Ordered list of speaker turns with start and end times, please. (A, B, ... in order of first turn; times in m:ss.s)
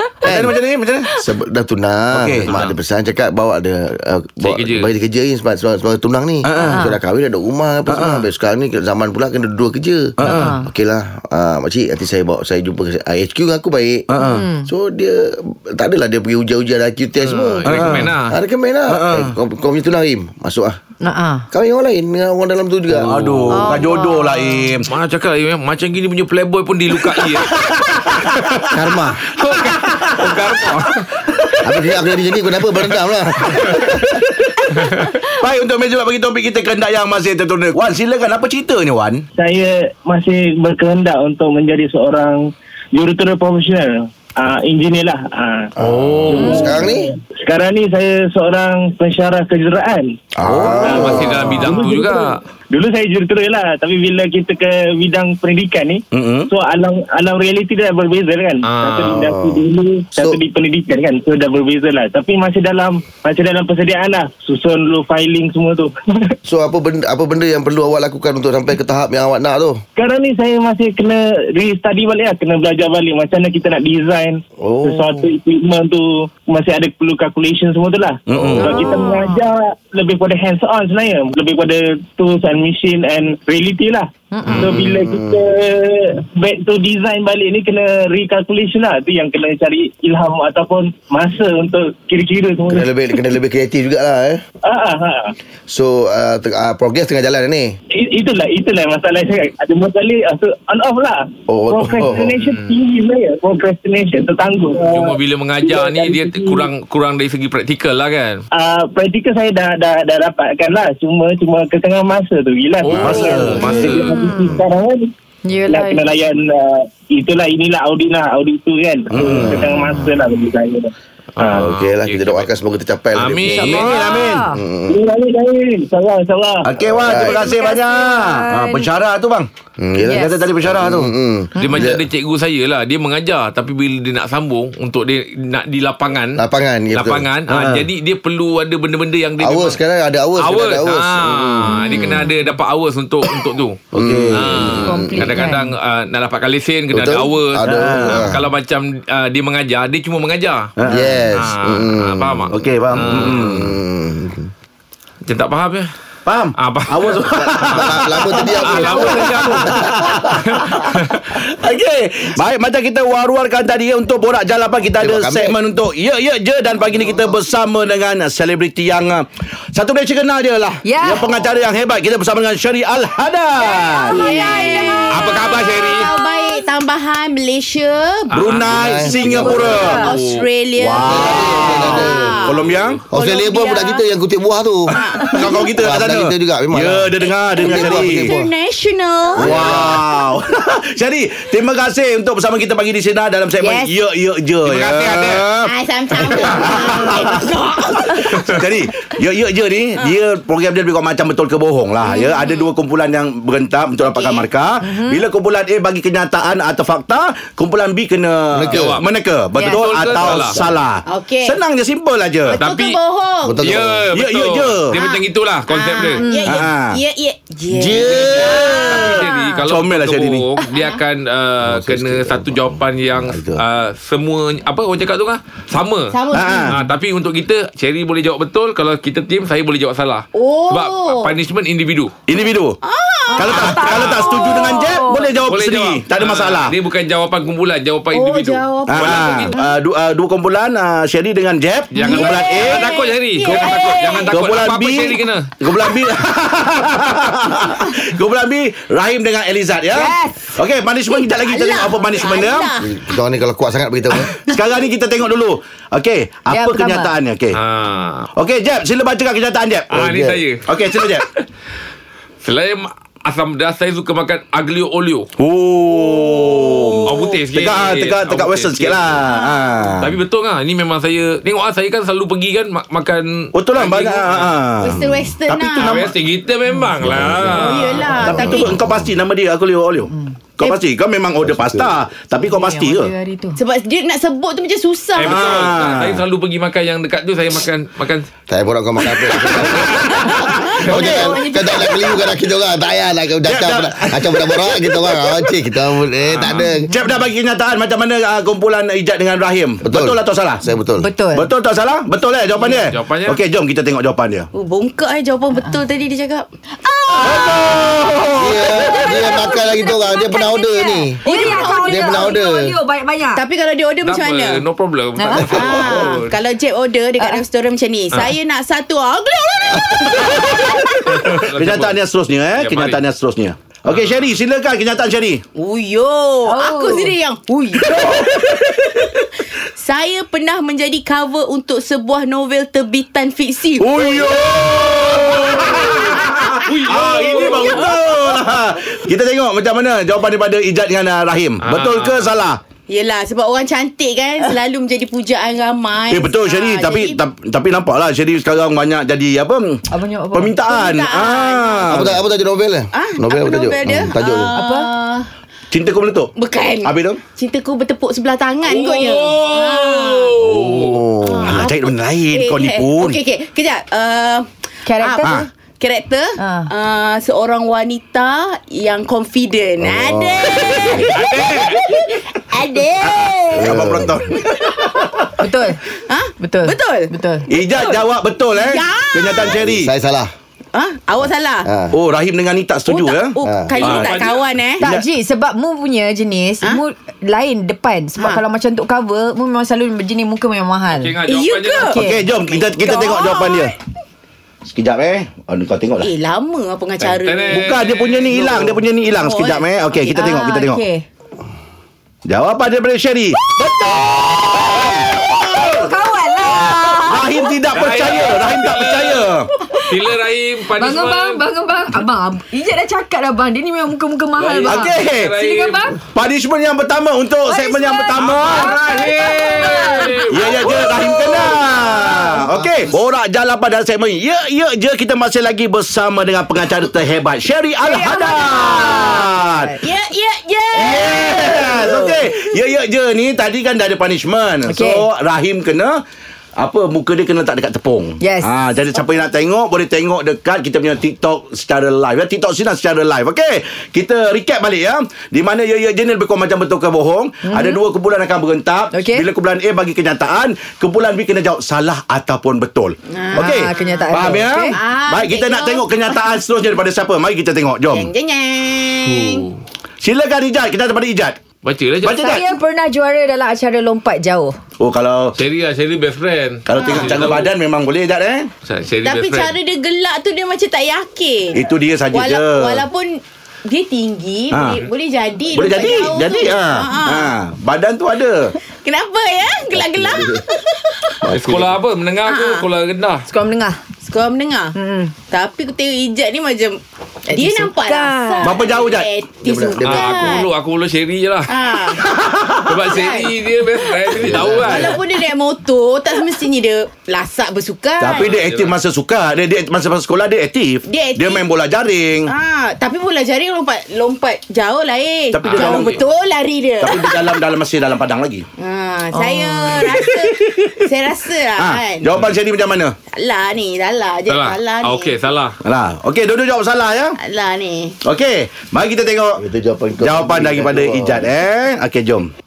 0:00.2-0:00.5 A
0:00.2-0:01.1 B
0:01.1-0:14.1 A
0:02.1-0:02.6 B
0:02.5-0:02.7 C
0:04.4-0:04.9 C
0:06.4-0:06.8 B
0:06.6-0:07.0 D
0:07.9-0:08.2 B
0:10.2-0:10.6 B
0:10.2-0:10.7 D
0:14.1-0:14.5 B
0:14.2-0:14.7 D
0:14.6-0:20.8 A
0:17.2-0:18.4 C
0:17.6-0:18.1 B
0:18.9-0:19.3 B
0:21.0-0:21.4 D
0:21.5-0:23.2 A
0:22.9-0:24.9 B
0:23.0-0:23.7 C
0:23.5-0:24.7 D
0:24.9-0:27.6 C
0:27.3-0:28.8 B
0:28.7-0:29.2 A
0:29.4-0:31.1 C
0:29.4-0:31.6 B
0:31.6-0:34.2 A
0:33.7-0:34.5 B
0:34.8-0:35.2 C
0:35.2-0:39.2 B
0:39.4-0:45.7 E
0:45.8-0:47.1 A
0:45.8-0:46.7 C
0:46.3-0:50.1 E
0:50.4-0:51.8 A
0:50.4-0:51.1 B
0:50.8-0:52.4 C
0:50.8-1:06.3 E
0:56.1-0:56.5 B
0:58.6-0:59.3 C
0:59.1-0:59.6 A
1:06.4-1:09.8 A
1:10.0-1:24.1 E
1:14.6-1:15.3 A
1:18.3-1:18.9 B
1:18.6-1:19.4 D
1:24.3-1:24.7 D
1:24.6-1:32.9 E
1:24.7-1:25.5 A
1:32.7-1:34.4 A
1:34.6-1:35.3 E
1:35.7-1:37.7 A
1:37.9-1:46.7 E
1:41.5-1:42.3 A
1:42.4-1:42.7 C
1:44.8-1:48.4 C
1:48.5-1:55.1 E
1:52.8-1:54.1 C
1:52.9-1:54.1 B
1:53.5-1:54.5 D
1:55.4-1:56.0 D
1:55.7-2:01.7 E
1:59.1-1:59.8 B
1:59.2-2:00.1 A
2:01.4-2:02.5 C
2:01.5-2:03.9 A
2:03.2-2:04.0 C
2:03.5-2:04.6 D
2:03.6-2:04.5 B
2:04.5-2:05.0 A
2:04.9-2:06.7 E
2:06.6-2:09.5 B
2:06.8-2:07.4 A
2:07.1-2:08.9 D
2:09.8-2:12.0 A
2:10.0-2:10.4 D
2:10.1-2:11.1 B
2:11.6-2:11.8 D
2:11.6-2:16.4 C
2:16.4-2:17.2 A
2:16.9-2:19.8 C
2:17.5-2:17.8 B
2:19.4-2:21.9 A
2:20.4-2:30.7 C
2:21.7-2:22.4 D
2:23.9-2:24.9 B
2:23.9-2:25.3 A
2:24.8-2:25.7 D
2:26.9-2:28.4 A
2:27.6-2:28.4 B
2:30.8-2:31.2 B
2:30.8-2:34.5 A
2:31.3-2:33.7 C
2:32.5-2:33.7 B
2:35.2-2:35.9 C
2:36.2-2:54.4 B
2:36.6-2:39.9 C
2:37.3-2:40.5 A
2:40.4-2:41.2 C
2:45.0-2:45.5 A
2:50.8-2:51.3 D
2:53.7-2:59.5 F
2:54.1-2:55.1 D
2:54.7-2:56.1 C
2:58.3-3:00.1 B
2:58.3-2:58.8 C
2:58.6-2:59.9 A
2:59.2-3:00.1 D
3:00.0-3:04.0 F
3:00.0-3:00.4 C
3:00.8-3:03.0 B
3:01.0-3:02.5 A
3:03.1-3:08.5 A
3:04.9-3:05.8 F
3:04.9-3:08.3 B
3:07.2-3:09.9 F
3:09.3-3:17.4 B
3:09.4-3:10.0 A
3:13.6-3:13.9 F
3:14.6-3:15.4 C
3:15.6-3:18.6 F
3:18.1-3:32.6 B
3:22.0-3:22.7 F
3:24.1-3:24.5 F
3:24.8-3:25.2 D
3:28.5-3:29.0 A
3:28.7-3:29.0 C
3:29.6-3:29.8 D
3:29.6-3:30.6 C
3:30.2-3:30.8 A
3:31.0-3:31.6 F
3:32.5-3:33.8 F
3:32.6-3:33.0 C
3:33.4-3:34.0 A
3:33.6-3:36.2 C
3:34.1-3:35.0 B
3:34.9-3:39.6 F
3:36.2-3:36.6 D
3:36.4-3:37.0 B
3:37.7-3:38.8 A
3:38.0-3:46.1 C
3:38.4-3:40.5 B
3:41.6-3:43.6 A
3:46.1-3:46.7 F
3:46.3-3:46.8 B
3:46.7-3:52.2 C
3:50.3-3:51.3 F
3:52.3-3:52.8 B
3:52.8-3:54.1 F
3:53.3-3:55.3 D
3:53.4-3:56.7 B
3:53.8-3:54.4 C
3:55.5-3:59.6 C
3:58.1-3:59.7 F
3:58.9-4:12.7 B
4:01.9-4:05.5 C
4:02.0-4:04.5 F
4:09.9-4:10.5 D
4:11.1-4:12.9 F
4:12.8-4:14.4 A
4:14.4-4:17.6 B
4:16.5-4:17.1 D
4:17.5-4:18.3 C
4:18.4-4:21.2 B
4:19.9-4:21.4 C
4:20.0-4:20.4 A
4:22.4-4:25.3 C
4:25.4-4:30.1 B
4:25.9-4:27.4 F
4:27.0-4:29.2 C
4:29.3-4:29.9 F
4:30.0-4:34.6 C
4:33.5-4:36.1 B
4:34.8-4:36.1 F
4:35.7-4:38.1 C
4:37.0-4:37.7 A
4:37.5-4:38.9 F
4:38.2-4:43.1 B
4:38.2-4:39.1 A
4:41.4-4:41.9 A
4:42.4-4:43.6 D
4:43.6-4:45.5 F
4:45.2-4:48.3 C
4:45.2-4:46.2 B
4:48.5-4:56.9 A
4:49.6-4:51.3 B
4:50.9-4:52.0 D
4:53.4-4:55.5 B
4:56.2-4:56.7 C
4:56.9-5:00.6 B
4:59.8-5:01.1 A
5:01.0-5:01.5 D
5:01.3-5:04.5 B
5:02.6-5:03.4 C
5:04.5-5:06.5 F
5:06.8-5:07.8 D
5:07.2-5:09.0 B
5:08.4-5:12.7 A
5:08.7-5:13.4 D
5:11.2-5:12.3 F
5:13.3-5:14.6 F
5:14.0-5:16.4 C
5:15.2-5:15.5 D
5:15.4-5:21.4 F
5:21.0-5:22.0 C
5:21.4-5:25.4 B
5:22.6-5:23.0 C
5:23.9-5:24.4 C
5:25.6-5:29.2 F
5:26.4-5:28.0 D
5:27.9-5:28.4 B
5:29.7-5:38.5 F
5:33.8-5:42.6 B
5:36.6-5:37.9 C
5:41.6-5:42.3 C
5:42.9-5:47.2 F
5:46.1-5:49.8 B
5:49.9-5:50.6 D
5:50.3-5:52.2 B
5:50.7-5:52.2 F
5:51.9-5:54.6 A
5:52.9-5:55.3 F
5:54.5-5:54.9 D
5:55.7-5:56.3 B
5:56.4-6:00.7 F
5:56.8-5:57.2 B
5:58.6-6:01.0 C
6:00.5-6:01.7 A
6:01.2-6:15.1 F
6:01.4-6:03.2 B
6:04.8-6:05.4 D
6:05.2-6:05.5 B
6:06.4-6:06.7 D
6:09.8-6:11.1 A
6:10.8-6:11.1 B
6:11.1-6:11.8 C
6:13.0-6:15.3 B
6:13.6-6:14.2 A
6:15.4-6:15.8 D
6:15.9-6:17.7 F
6:16.4-6:17.9 D
6:17.5-6:19.9 B
6:18.5-6:19.6 F
6:19.4-6:20.3 A
6:20.7-6:21.7 F
6:21.6-6:21.9 A
6:21.9-6:25.0 B
6:22.8-6:24.8 F
6:23.4-6:23.8 A
6:23.8-6:24.4 C
6:24.8-6:31.1 D
6:30.9-6:32.0 C
6:31.3-6:33.7 F
6:31.8-6:32.2 D
6:31.9-6:33.7 B
6:34.6-6:36.1 B
6:36.0-6:37.8 F
6:37.0-6:38.5 C
6:37.5-6:40.8 B
6:39.1-6:41.0 F
6:40.2-6:40.6 D
6:42.2-6:45.9 B
6:43.4-6:47.6 D
6:46.5-6:49.5 B
6:47.7-6:49.3 C
6:49.6-6:50.0 D
6:49.9-6:51.4 C
6:50.8-6:56.0 D
6:54.4-6:56.0 C
6:54.6-6:55.3 B
6:56.1-6:58.8 B
6:57.5-7:01.4 D
6:57.5-6:58.0 F
6:58.2-7:00.7 C
6:59.7-7:02.4 F
7:00.3-7:09.7 B
7:01.9-7:02.4 D
7:07.8-7:09.8 D
7:09.8-7:12.5 F
7:10.7-7:16.0 B
7:14.6-7:15.0 D
7:16.6-7:38.1 B
7:18.2-7:18.5 D
7:27.4-7:27.8 D
7:28.9-7:29.3 D
7:33.1-7:36.3 F
7:33.3-7:34.8 D
7:37.9-7:39.4 F
7:39.0-7:39.6 C
7:40.0-7:41.4 B
7:41.6-7:42.3 C
7:42.0-7:42.4 B
7:42.1-7:44.6 D
7:44.8-7:45.4 B
7:45.4-7:47.5 C
7:46.6-7:48.5 B
7:46.7-7:47.4 F
7:48.6-7:49.5 C
7:49.0-7:57.3 F
7:51.5-7:52.8 B
7:54.5-7:54.9 B
7:55.5-7:58.5 B
7:58.7-8:01.2 F
7:59.7-8:00.4 A
8:01.2-8:01.7 A
8:01.3-8:03.2 C
8:02.2-8:02.6 F
8:03.3-8:03.8 D
8:04.0-8:04.8 F
8:04.7-8:05.1 D
8:05.3-8:10.5 F
8:07.3-8:08.6 D
8:08.4-8:09.1 B
8:09.4-8:10.4 A
8:09.8-8:11.5 C
8:11.5-8:12.2 F
8:12.1-8:12.7 B
8:12.7-8:15.0 C
8:12.8-8:18.4 F
8:14.2-8:15.0 A
8:18.0-8:22.3 B
8:18.1-8:18.7 C
8:20.9-8:21.5 F
8:22.3-8:27.4 F
8:25.3-8:26.0 B
8:25.4-8:26.0 C
8:26.8-8:28.4 B
8:28.6-8:32.2 F
8:29.1-8:29.7 D
8:29.8-8:30.8 B
8:31.6-8:33.0 B
8:33.1-8:35.1 F
8:34.3-8:35.6 C
8:35.6-8:37.2 B
8:37.2-8:38.0 F
8:38.0-8:39.4 B
8:39.4-8:41.3 A
8:40.0-8:42.3 B